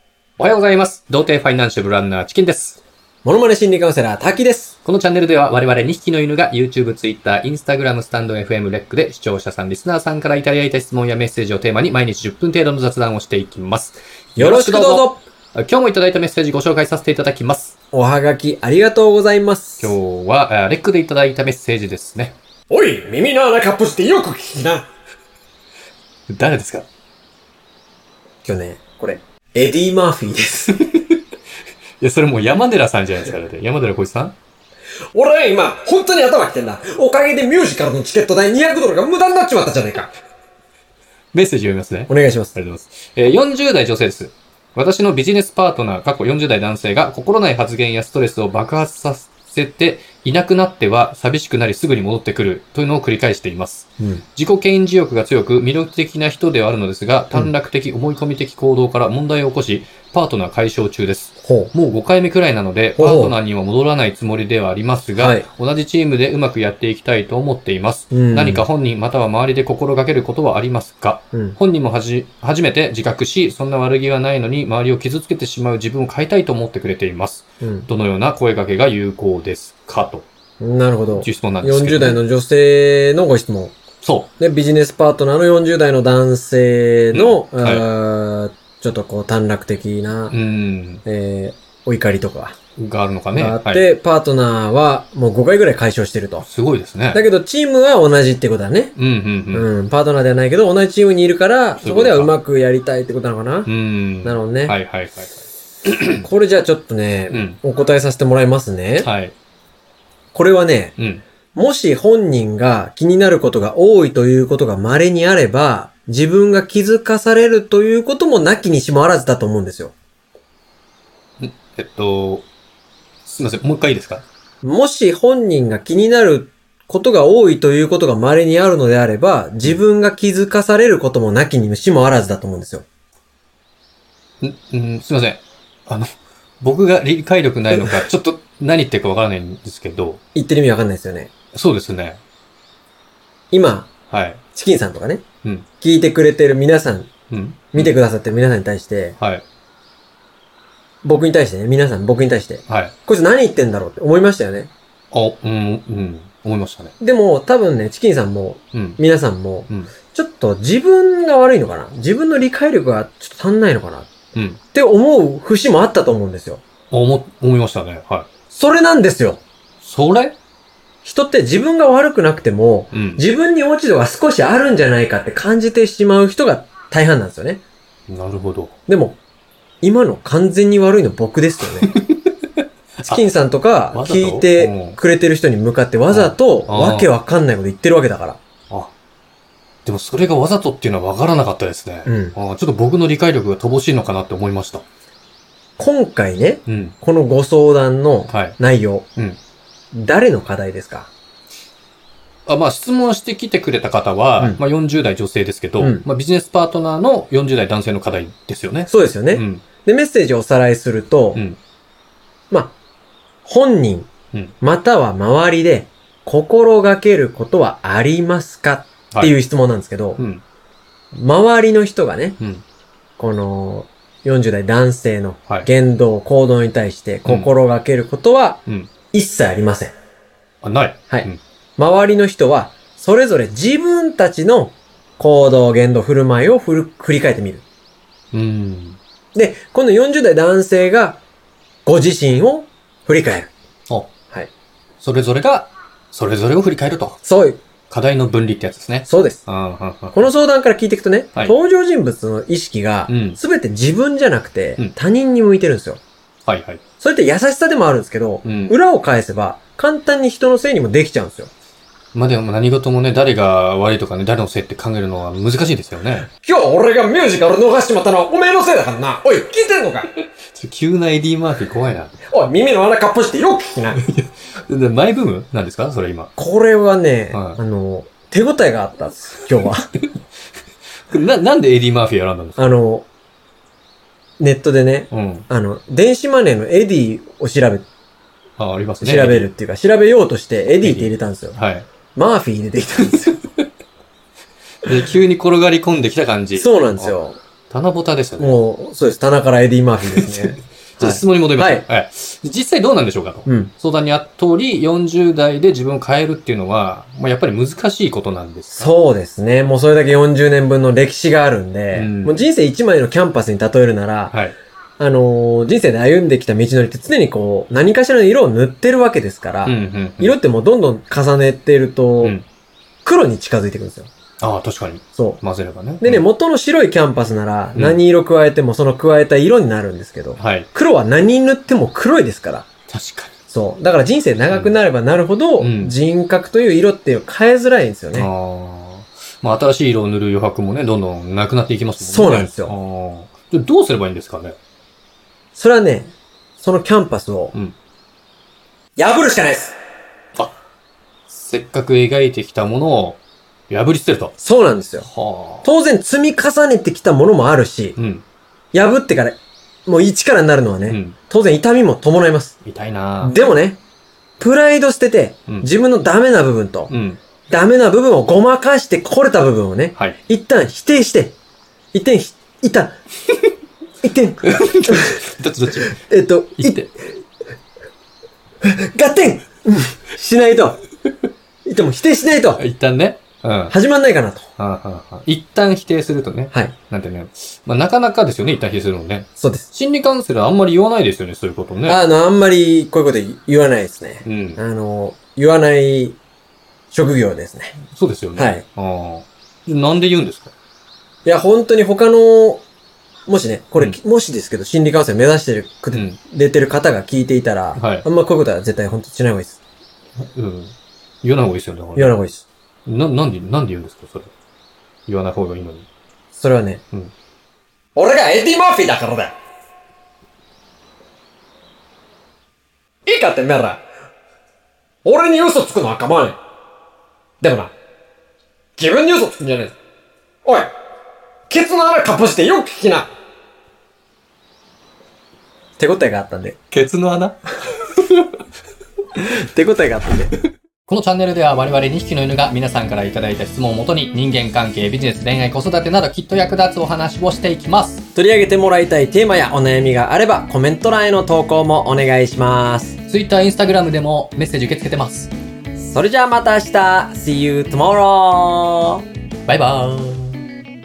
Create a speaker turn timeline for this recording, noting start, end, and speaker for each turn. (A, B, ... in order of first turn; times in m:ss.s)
0:00.4-0:02.8 A
0:03.2-0:04.8 B
0:04.8-0:17.8 A
0:14.4-0:15.2 B
0:17.9-0:20.0 B
0:19.8-0:22.4 A
0:22.7-0:24.9 B
0:26.3-0:26.9 A
0:28.4-0:30.8 B
0:30.9-0:31.2 A
0:32.0-0:34.4 A
0:35.1-0:40.1 B
0:41.3-1:20.3 A
0:42.1-0:42.6 B
1:01.4-1:01.7 B
1:03.0-1:03.4 B
1:05.2-1:05.5 B
1:08.1-1:08.6 B
1:17.6-1:17.9 B
1:20.6-1:23.8 B
1:21.2-1:22.2 A
1:24.0-1:24.3 A
1:24.4-1:30.4 B
1:27.1-1:27.9 A
1:30.3-1:31.0 A
1:31.0-1:32.6 B
1:32.8-1:33.8 A
1:33.3-1:36.5 B
1:36.4-1:37.2 A
1:37.1-1:39.0 B
1:39.0-1:39.7 A
1:39.5-1:43.7 B
1:41.8-1:42.3 A
1:43.7-1:45.3 A
1:44.2-1:44.8 B
1:45.8-1:46.3 A
1:46.2-1:49.1 B
1:47.3-1:47.6 A
1:49.0-1:49.4 A
1:50.3-1:51.0 B
1:51.0-1:51.2 A
1:51.6-1:59.9 B
2:01.4-2:02.5 A
2:03.2-2:04.2 A
2:04.6-2:12.8 B
2:14.4-2:16.1 A
2:16.6-2:20.2 A
2:17.7-2:18.0 B
2:20.4-2:21.3 B
2:21.5-2:22.2 A
2:23.5-2:23.9 B
2:24.1-2:24.4 A
2:24.5-2:25.2 B
2:25.8-2:27.1 B
2:27.3-2:27.9 A
2:27.7-2:29.2 B
2:29.2-2:29.4 A
2:31.0-2:34.7 B
2:32.7-2:33.0 A
2:35.1-2:36.9 A
2:37.0-2:44.1 B
2:38.7-2:39.0 A
2:44.4-2:44.6 A
2:44.7-2:46.6 B
2:46.9-2:48.3 A
2:48.5-2:49.4 B
2:49.8-2:50.4 A
2:51.0-2:57.6 B
2:52.9-2:53.2 A
2:58.1-2:58.8 A
2:58.9-2:59.2 B
2:59.8-3:02.0 B
3:01.8-3:03.2 A
3:03.0-3:08.4 B
3:03.9-3:05.0 A
3:06.1-3:07.1 A
3:09.8-3:14.8 A
3:12.1-3:12.4 B
3:15.8-3:19.1 B
3:16.7-3:17.0 A
3:18.3-3:18.6 A
3:19.9-3:21.1 B
3:22.5-3:29.7 A
3:25.8-3:26.0 B
3:28.9-3:31.4 B
3:31.3-3:31.6 A
3:33.4-3:34.1 B
3:34.6-3:40.2 B
3:40.2-3:40.4 A
3:41.1-3:42.4 B
3:43.2-3:50.0 B
3:47.3-3:47.5 A
3:50.6-3:51.4 A
3:51.1-3:57.6 B
3:58.3-3:59.0 A
3:59.4-4:01.2 B
4:01.9-4:03.5 B
4:05.0-4:07.2 A
4:07.2-4:07.6 B
4:07.9-4:10.3 A
4:09.1-4:09.4 B
4:10.1-4:16.0 B
4:13.1-4:13.4 A
4:16.5-4:16.8 A
4:17.0-4:21.5 B
4:18.4-4:18.8 A
4:22.1-4:26.3 A
4:26.4-4:30.1 B
4:30.1-4:32.2 A
4:32.3-4:34.0 B
4:34.0-4:36.3 A
4:36.4-4:39.9 B
4:37.3-4:37.6 A
4:41.1-4:42.8 A
4:42.6-4:43.1 B
4:44.4-4:47.9 B
4:45.1-4:45.5 A
4:48.6-4:49.5 A
4:49.0-4:51.6 B
4:50.8-4:51.9 A
4:52.2-4:53.4 B
4:54.8-4:57.2 A
4:56.6-4:57.4 B
4:57.7-4:58.6 A
4:58.4-5:01.9 B
5:00.1-5:08.9 A
5:03.5-5:03.7 B
5:08.7-5:14.4 B
5:11.9-5:12.4 A
5:15.0-5:22.4 B
5:19.6-5:20.4 A
5:23.0-5:24.1 B
5:24.4-5:26.3 A
5:25.2-5:25.4 B
5:26.0-5:32.7 B
5:27.8-5:28.0 A
5:30.4-5:30.7 A
5:32.9-5:33.4 A
5:33.5-5:38.3 B
5:34.5-5:34.8 A
5:35.6-5:36.0 A
5:38.1-5:44.6 A
5:42.0-5:42.7 B
5:45.6-5:47.5 B
5:49.0-5:49.8 B
5:51.3-5:54.3 A
5:54.4-5:55.1 B
5:55.0-5:55.7 A
5:55.6-5:58.0 B
5:58.0-5:58.2 A
5:58.7-6:02.6 B
6:00.9-6:01.2 A
6:02.6-6:03.4 A
6:03.2-6:03.8 B
6:04.4-6:06.9 B
6:06.9-6:07.2 A
6:07.5-6:11.4 B
6:11.9-6:13.0 B
6:14.0-6:15.2 B
6:14.4-6:15.9 A
6:15.8-6:16.9 B
6:16.6-6:16.9 A
6:18.6-6:20.8 B
6:21.7-6:22.6 B
6:22.6-6:23.7 A
6:23.7-6:24.5 B
6:24.6-6:32.0 A
6:29.4-6:29.7 B
6:31.9-6:36.2 B
6:34.2-6:34.6 A
6:36.9-6:37.8 B
6:37.9-6:40.5 A
6:38.4-6:38.6 B
6:41.2-6:42.6 B
6:43.3-6:49.6 B
6:45.9-6:46.2 A
6:47.8-6:48.1 A
6:50.2-6:52.2 A
6:52.0-6:52.4 B
6:52.9-6:54.3 A
6:55.1-6:55.9 A
6:56.3-6:56.8 B
6:58.0-6:59.3 B
7:03.1-7:03.8 B
7:05.0-7:06.4 B
7:07.4-7:07.7 B
7:08.8-7:09.7 B
7:10.4-7:10.7 B
7:11.5-7:13.1 B
7:15.8-7:16.6 B
7:16.7-7:18.3 A
7:19.2-7:20.4 B
7:20.9-7:28.0 A
7:28.2-7:33.0 B
7:33.1-7:35.3 A
7:35.8-7:39.0 B
7:39.5-7:40.4 A